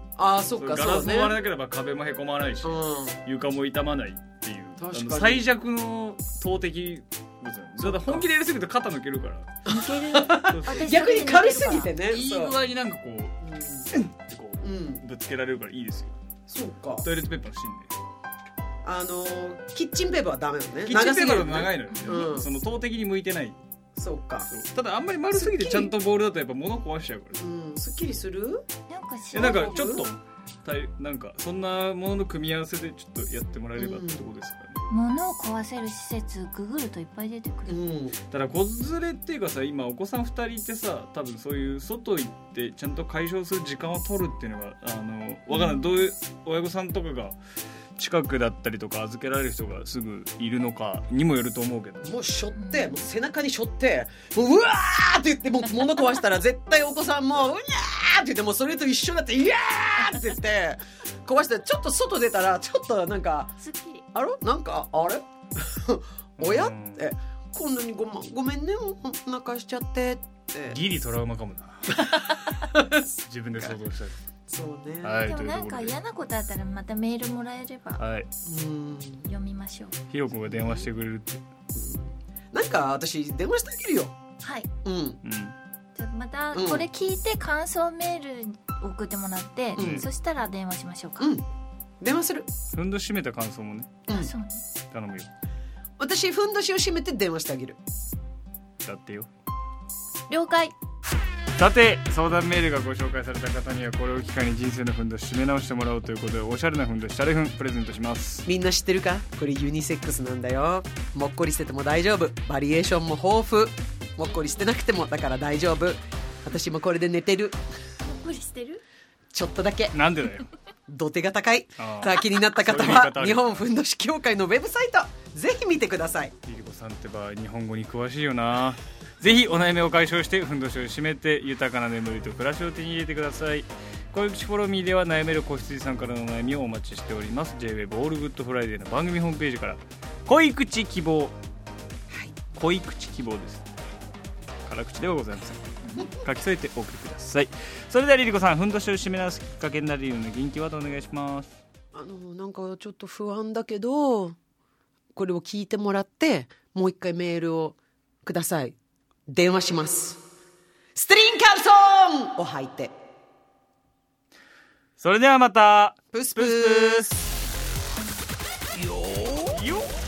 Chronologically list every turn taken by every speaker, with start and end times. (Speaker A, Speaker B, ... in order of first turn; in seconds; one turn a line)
Speaker A: 0.2-1.4
Speaker B: 0.6-9.6
Speaker A: 2.6-3.2
Speaker A: 4.8-5.4
Speaker A: 7.8-8.2
Speaker A: 9.7-12.5
Speaker C: 9.7-11.9
Speaker B: 10.4-10.9
Speaker B: 12.1-13.4
Speaker A: 13.4-13.9
Speaker B: 13.9-16.1
Speaker A: 14.6-15.0
Speaker A: 16.5-17.1
Speaker B: 17.0-17.9
Speaker A: 18.8-22.5
Speaker B: 20.9-23.6
Speaker C: 21.9-22.3
Speaker A: 23.9-24.5
Speaker B: 24.5-27.4
Speaker A: 25.3-25.9
Speaker A: 27.4-28.7
Speaker C: 28.9-30.1
Speaker B: 29.3-34.8
Speaker A: 29.3-30.1
Speaker A: 33.8-34.2
Speaker C: 34.9-37.8
Speaker A: 37.7-38.1
Speaker B: 38.3-47.4
Speaker C: 45.5-46.1
Speaker B: 48.0-52.1
Speaker A: 52.0-63.5
Speaker C: 52.5-53.0
Speaker C: 63.6-64.0
Speaker A: 64.1-70.8
Speaker B: 66.4-67.1
Speaker B: 70.7-72.1
Speaker A: 71.9-73.0
Speaker B: 73.2-74.1
Speaker A: 74.5-75.3
Speaker B: 75.0-76.0
Speaker C: 75.2-78.0
Speaker B: 78.0-78.3
Speaker A: 78.4-79.3
Speaker C: 79.2-80.0
Speaker B: 80.1-81.4
Speaker A: 80.5-80.9
Speaker A: 81.7-84.1
Speaker C: 84.4-84.7
Speaker A: 84.8-85.2
Speaker B: 85.2-85.5
Speaker C: 85.9-91.3
Speaker A: 86.5-86.9
Speaker B: 89.7-90.1
Speaker A: 89.7-90.1
Speaker A: 91.2-91.4
Speaker A: 92.0-92.5
Speaker B: 92.7-94.0
Speaker C: 94.1-94.6
Speaker B: 94.9-95.3
Speaker A: 96.0-97.8
Speaker B: 98.8-99.3
Speaker C: 100.3-100.7
Speaker B: 101.6-108.5
Speaker A: 108.5-117.6
Speaker C: 118.0-118.8
Speaker A: 119.3-120.0
Speaker B: 119.9-120.5
Speaker A: 120.9-126.3
Speaker B: 121.8-123.6
Speaker B: 126.5-141.3
Speaker A: 142.1-142.3
Speaker B: 142.5-143.7
Speaker B: 144.7-151.6
Speaker A: 151.9-154.4
Speaker A: 155.1-160.2
Speaker A: 160.9-162.9
Speaker B: 165.0-167.2
Speaker A: 166.1-167.1
Speaker A: 168.7-169.7
Speaker B: 169.5-170.0